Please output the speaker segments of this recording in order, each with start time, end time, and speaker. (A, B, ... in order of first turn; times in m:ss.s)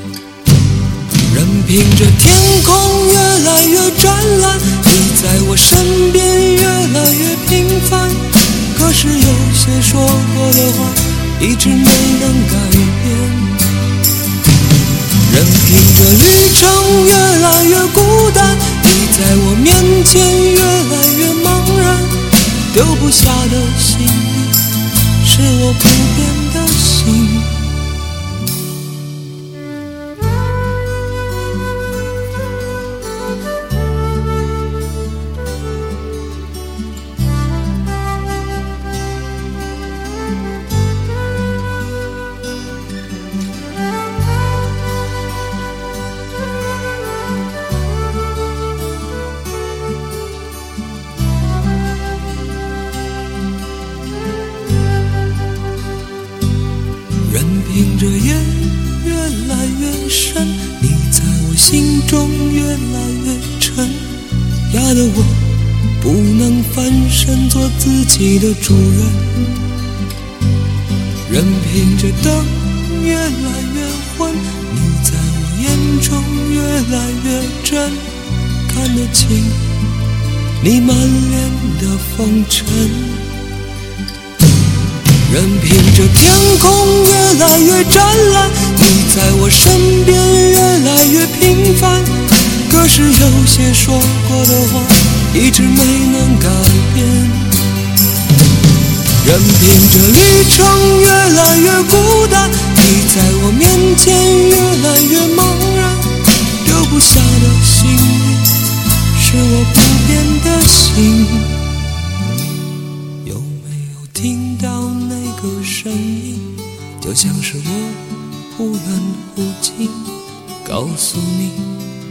0:01.2-0:13.6 A
0:15.2-0:24.6 A
0:25.2-0:27.6 A
0:57.2-1:09.4 A
1:11.2-1:19.7 A
1:20.6-1:23.3 A
1:25.2-1:37.6 A
1:39.2-1:48.6 A
1:49.1-1:51.6 A
1:53.2-2:01.8 A